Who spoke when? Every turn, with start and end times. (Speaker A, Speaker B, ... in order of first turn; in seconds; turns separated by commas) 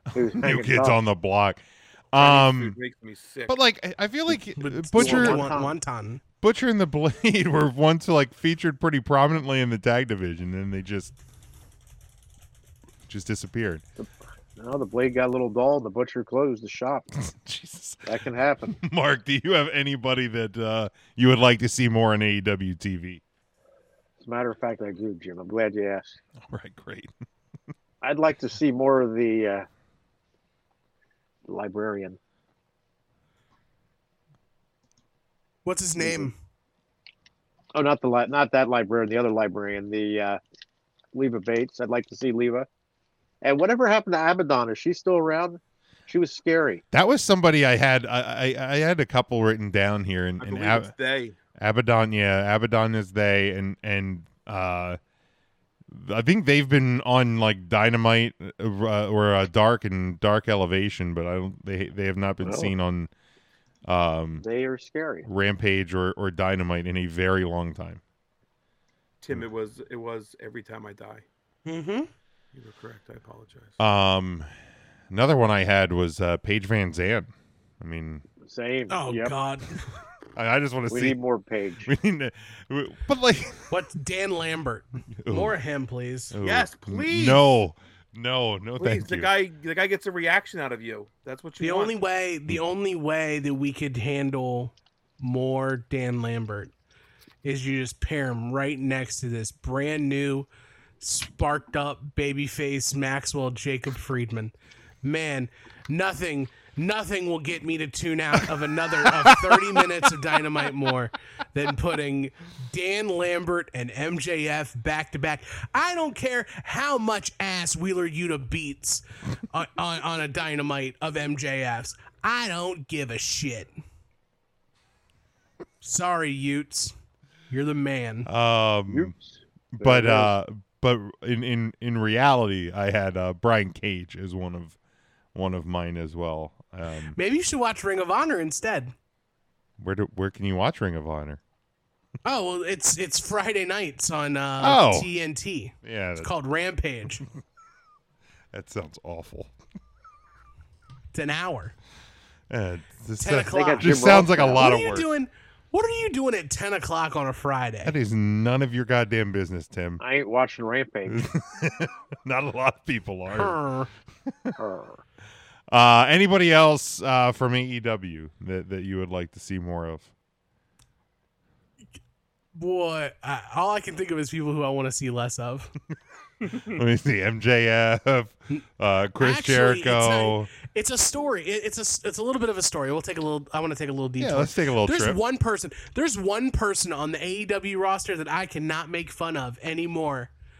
Speaker A: 0.1-1.0, Speaker B: 0.1-2.8, Speaker C: 2.1-3.5, Speaker B: 3.5-5.5, Speaker D: 4.5-6.2, Speaker A: 5.0-5.8, Speaker B: 6.4-11.1, Speaker B: 13.1-13.8, Speaker A: 14.0-17.1, Speaker B: 17.1-18.1, Speaker A: 18.1-18.7, Speaker B: 18.7-23.2, Speaker A: 24.2-26.2, Speaker B: 26.4-27.1, Speaker A: 28.0-29.6, Speaker A: 31.5-32.2, Speaker D: 35.6-36.3, Speaker A: 36.0-36.3, Speaker A: 37.7-40.4, Speaker A: 41.1-42.7, Speaker A: 43.4-46.8, Speaker B: 46.9-50.9, Speaker C: 50.4-51.4, Speaker B: 51.6-55.0, Speaker B: 55.9-63.1, Speaker A: 62.4-62.7, Speaker B: 63.9-64.4, Speaker A: 64.4-65.3, Speaker B: 65.2-68.0, Speaker C: 69.2-71.2, Speaker D: 71.7-72.1, Speaker C: 72.5-73.8, Speaker B: 73.8-74.5, Speaker B: 75.1-78.2, Speaker A: 78.4-79.3, Speaker D: 78.9-79.8, Speaker B: 80.3-81.2, Speaker A: 80.9-81.9, Speaker B: 81.8-83.6, Speaker D: 83.7-86.3, Speaker B: 85.2-85.5, Speaker B: 86.3-89.3, Speaker C: 86.4-87.5, Speaker C: 88.8-91.9, Speaker D: 91.6-96.7, Speaker D: 97.4-100.5, Speaker D: 101.0-123.7, Speaker B: 109.2-109.8, Speaker D: 125.8-126.9, Speaker D: 127.5-128.3, Speaker B: 128.2-129.1, Speaker A: 128.9-130.3, Speaker B: 129.8-134.8, Speaker B: 135.3-137.2, Speaker D: 137.1-138.9, Speaker B: 139.8-141.4, Speaker D: 142.2-147.2, Speaker B: 144.6-145.1, Speaker B: 145.8-146.3, Speaker B: 148.5-149.5, Speaker D: 151.1-151.7, Speaker B: 152.5-155.1, Speaker D: 153.2-157.9, Speaker A: 153.5-154.7, Speaker B: 157.8-160.0, Speaker A: 160.0-161.2, Speaker B: 161.1-163.6, Speaker D: 163.3-163.9, Speaker A: 164.6-165.0, Speaker B: 165.7-170.1, Speaker D: 172.5-175.7, Speaker B: 176.6-180.5, Speaker D: 179.2-190.3, Speaker B: 184.2-185.2